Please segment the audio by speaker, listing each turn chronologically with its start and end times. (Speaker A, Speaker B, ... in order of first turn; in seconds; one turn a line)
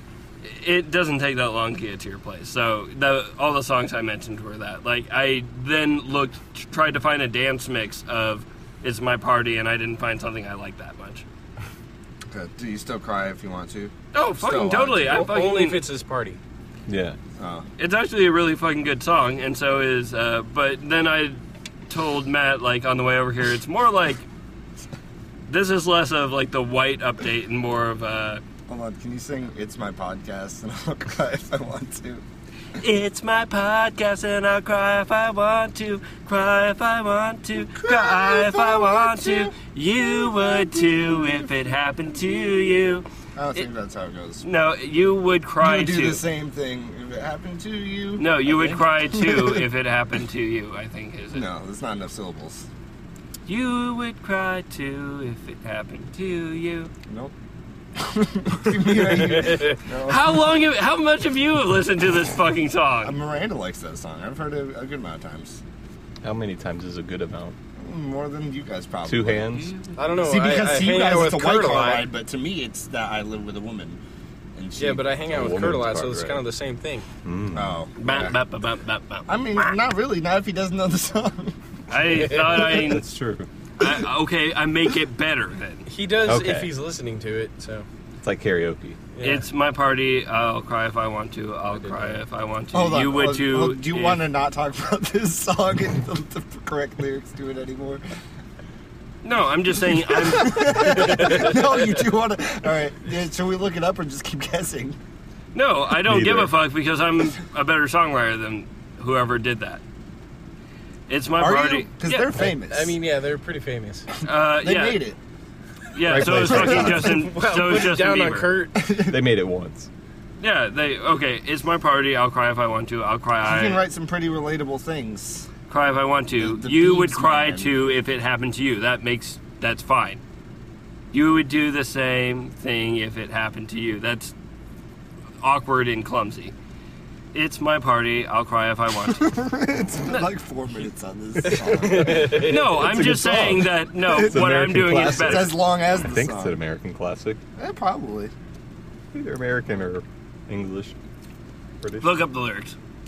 Speaker A: 0.4-11.2
Speaker B: 12.3-15.3
Speaker A: 14.1-15.8
Speaker C: 15.1-16.4
Speaker D: 16.9-17.2
Speaker B: 17.4-17.6
Speaker A: 17.8-24.2
Speaker A: 25.5-28.4
Speaker B: 28.7-32.2
Speaker A: 32.8-43.6
Speaker B: 37.8-39.5
Speaker B: 40.1-41.0
Speaker B: 43.4-44.4
Speaker A: 44.4-46.2
Speaker B: 45.6-49.6
Speaker A: 48.2-51.5
Speaker B: 51.3-52.6
Speaker A: 53.5-56.9
Speaker B: 58.0-60.5
Speaker A: 59.5-63.1
Speaker B: 63.0-65.6
Speaker D: 66.2-67.5
Speaker B: 67.8-74.0
Speaker D: 69.1-69.7
Speaker A: 69.5-70.0
Speaker C: 70.0-72.1
Speaker B: 74.5-75.1
Speaker C: 74.8-77.0
Speaker D: 75.3-76.4
Speaker D: 77.2-77.8
Speaker B: 77.5-78.3
Speaker A: 78.0-79.8
Speaker B: 79.3-81.6
Speaker A: 81.9-83.0
Speaker C: 82.1-82.7
Speaker D: 82.7-83.5
Speaker A: 83.8-85.8
Speaker C: 85.9-87.8
Speaker D: 86.2-86.7
Speaker D: 88.2-89.0
Speaker C: 89.1-89.5
Speaker A: 89.2-94.2
Speaker C: 91.7-92.2
Speaker B: 92.7-98.0
Speaker A: 99.2-101.2
Speaker B: 99.9-105.0
Speaker A: 105.5-109.8
Speaker D: 106.0-106.5
Speaker A: 111.1-112.3
Speaker B: 111.4-112.9
Speaker C: 112.4-114.1
Speaker A: 114.2-115.0
Speaker B: 114.6-115.2
Speaker A: 115.9-118.5
Speaker D: 116.0-117.2
Speaker B: 116.2-117.0
Speaker C: 116.8-118.8
Speaker B: 118.8-119.2
Speaker D: 119.0-119.9
Speaker A: 120.4-123.8
Speaker B: 123.4-125.5
Speaker A: 125.7-130.2
Speaker B: 126.4-127.7
Speaker A: 131.1-134.3
Speaker A: 135.4-136.5
Speaker A: 137.3-139.3
Speaker B: 139.1-143.5
Speaker C: 141.6-142.8
Speaker A: 141.9-145.6
Speaker D: 142.8-147.4
Speaker B: 145.1-146.6
Speaker B: 147.6-148.3
Speaker D: 149.1-150.9
Speaker D: 151.8-152.2
Speaker A: 152.0-152.8